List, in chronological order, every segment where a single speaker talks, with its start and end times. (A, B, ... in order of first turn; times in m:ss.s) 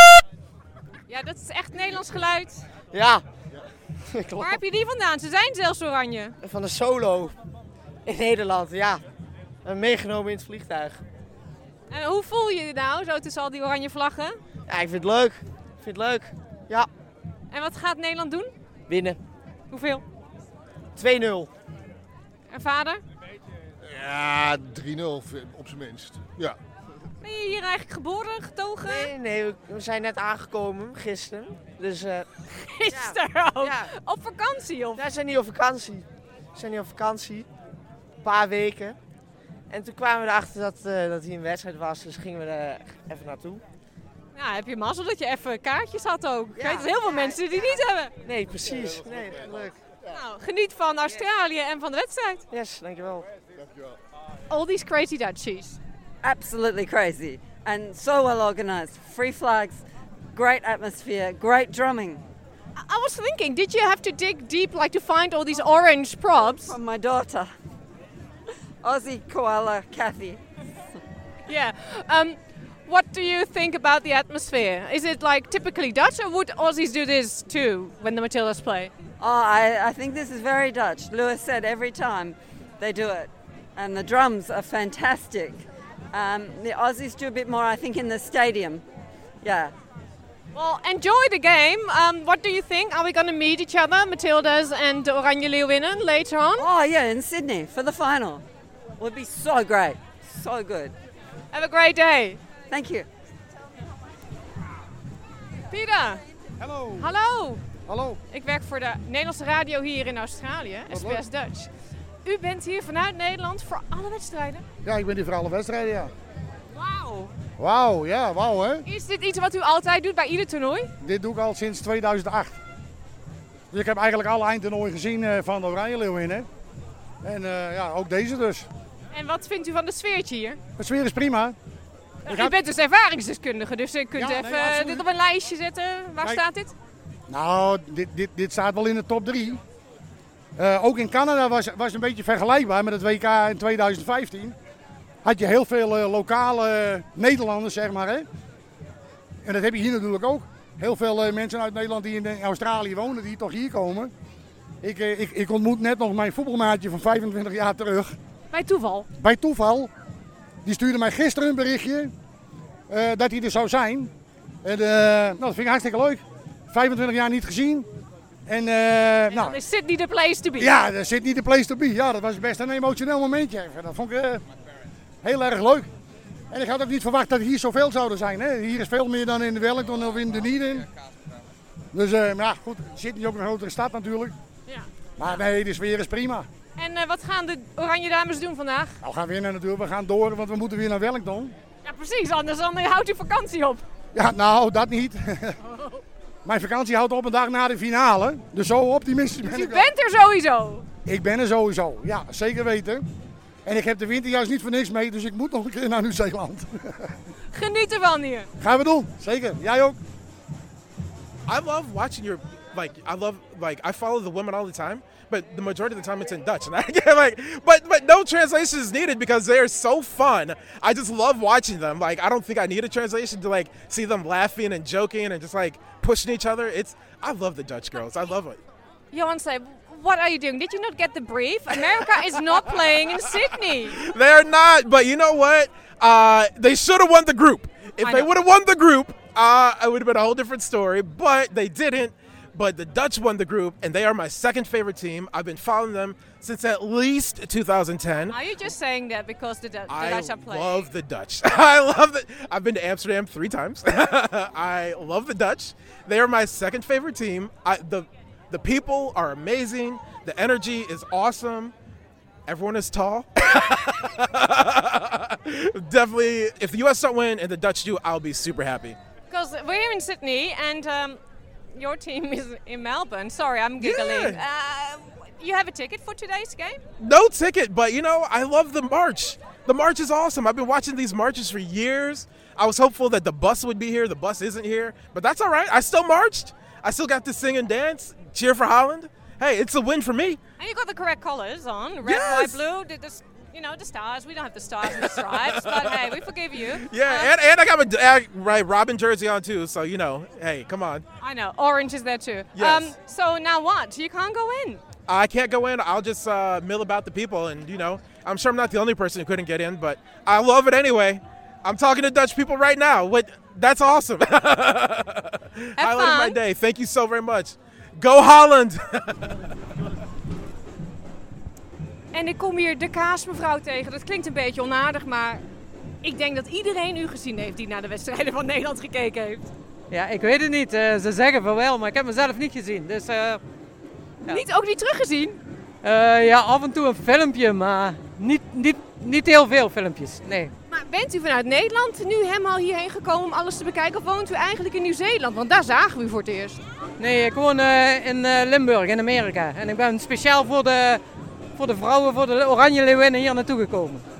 0:01.1-0:02.6 A
0:02.9-0:03.2 B
0:04.1-0:04.6 B
0:04.4-0:06.4 A
0:06.4-0:07.4 B
0:08.0-0:09.0 B
0:09.6-0:11.0 B
0:11.9-0:14.4 A
0:14.7-0:16.9 B
0:17.5-0:18.5 A
0:18.9-0:19.2 B
0:19.7-0:20.0 A
0:21.0-0:21.5 B
0:22.5-0:23.0 A
0:23.8-0:26.6 C
0:27.2-0:29.1 A
0:28.8-0:32.3 B
0:32.5-0:35.0 A
0:32.9-0:33.9 B
0:35.0-0:37.5 B
0:38.2-0:39.0 B
0:39.7-0:43.6 B
0:44.3-0:48.1 A
0:46.5-0:47.8 D
0:48.2-0:49.8 B
0:50.0-0:52.4 A
0:52.5-0:53.3 B
0:54.5-0:55.8 A
0:56.2-0:59.8 D
1:00.3-1:02.2 D
1:02.8-1:06.7 A
1:06.6-1:07.5 D
1:08.8-1:10.4 D
1:11.4-1:18.9 A
1:19.2-1:25.6 D
1:26.1-1:28.8 D
1:29.4-1:29.7 D
1:30.5-1:36.7 A
1:36.6-1:38.4 D
1:39.0-1:40.9 D
1:41.5-1:42.4 A
1:42.7-1:43.1 D
1:45.7-1:46.2 A
1:46.6-1:47.1 E
1:47.0-1:47.6 A
1:47.8-1:48.2 E
1:48.3-1:51.7 A
1:50.9-1:51.2 E
1:52.2-1:54.6 A
1:54.8-1:56.1 E
1:56.7-1:57.3 A
1:57.6-1:58.8 E
1:58.8-2:00.9 A
2:01.0-2:02.6 E
2:03.7-2:06.5 E
2:07.2-2:08.7 E
2:09.1-2:10.6 A
2:10.8-2:11.6 E
2:12.2-2:16.7 A
2:12.3-2:12.6 E
2:14.1-2:15.0 E
2:17.3-2:19.6 E
2:20.6-2:24.6 E
2:25.2-2:28.3 E
2:29.4-2:34.1 E
2:34.8-2:38.1 E
2:38.5-2:39.0 A
2:39.2-2:39.9 E
2:40.6-2:42.1 E
2:42.9-2:44.1 E
2:44.6-2:47.9 E
2:48.5-2:49.6 E
2:49.3-2:50.7 A
2:50.6-2:54.4 E
2:55.2-2:55.9 E
2:56.5-3:00.9 E
3:01.9-3:04.3 E
3:05.2-3:06.5 E
3:06.8-3:09.0 A
3:09.0-3:11.5 E
3:11.8-3:13.8 A
3:14.1-3:15.6 E
3:16.4-3:19.9 E
3:19.4-3:20.8 A
3:21.0-3:23.0 E
3:23.6-3:27.1 E
3:27.5-3:28.5 A
3:28.6-3:30.0 E
3:31.5-3:48.6 F
3:49.1-3:54.0 A
3:53.9-4:08.4 F
3:58.0-3:58.3 A
4:08.3-4:10.8 A
4:09.9-4:21.7 F
4:22.5-4:29.0 F
4:29.3-4:31.2 A
4:31.7-4:36.8 A
4:33.8-4:34.4 F
4:37.0-4:50.4 F
4:50.6-4:57.3 A
4:52.0-4:52.6 F
4:55.0-5:01.0 F
5:01.2-5:04.8 A
5:02.5-5:02.9 F
5:05.1-5:19.5 F
5:15.8-5:16.4 A
5:22.1-5:25.4 A
5:26.0-5:29.5 A
5:29.9-5:33.4 G
5:34.3-5:35.4 A
5:35.8-5:40.5 G
5:40.7-5:46.6 A
5:47.0-5:51.0 G
5:51.6-5:54.0 G